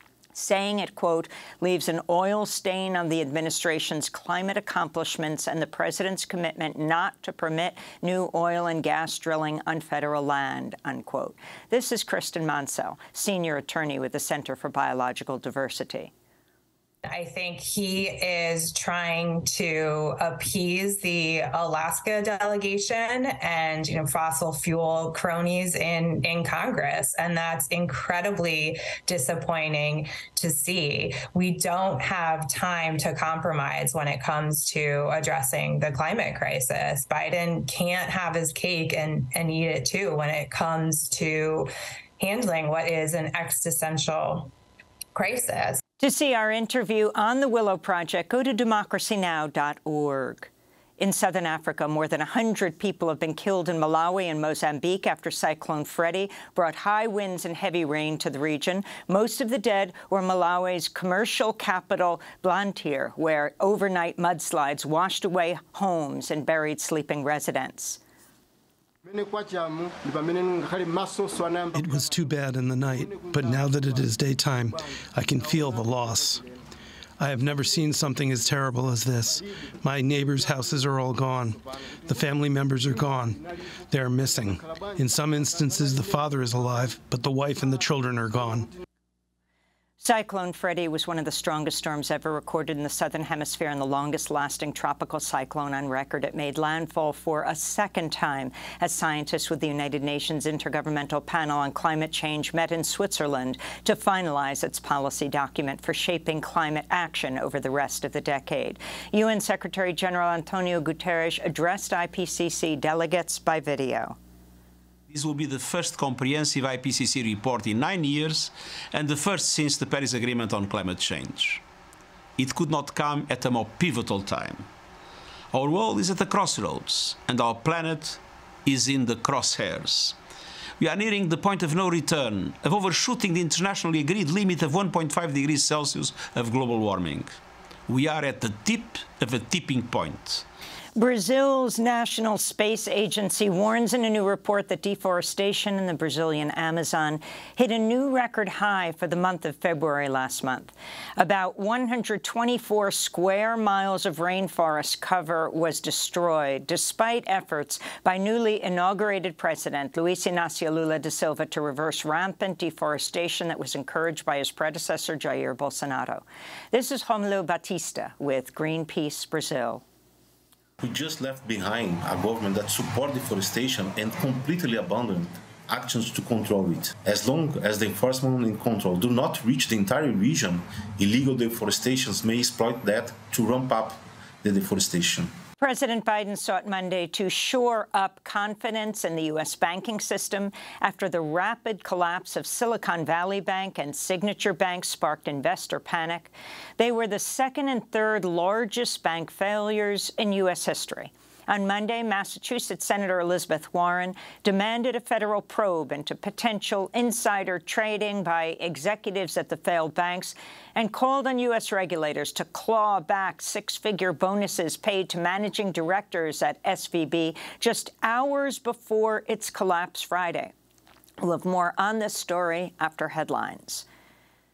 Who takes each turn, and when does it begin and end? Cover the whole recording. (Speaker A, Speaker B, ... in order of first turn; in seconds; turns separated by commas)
Speaker A: 0.3-16.1, Speaker B: 17.1-41.7, Speaker B: 42.2-44.5, Speaker B: 45.1-45.8, Speaker A: 46.0-68.0, Speaker C: 71.7-76.4, Speaker C: 77.2-88.7, Speaker A: 90.0-114.1, Speaker D: 115.1-121.6, Speaker D: 122.4-124.7, Speaker D: 125.5-130.2, Speaker D: 130.8-137.4, Speaker D: 137.9-140.4, Speaker A: 140.9-169.8, Speaker E: 170.8-185.3, Speaker A: 185.6-220.5, Speaker A: 221.2-223.8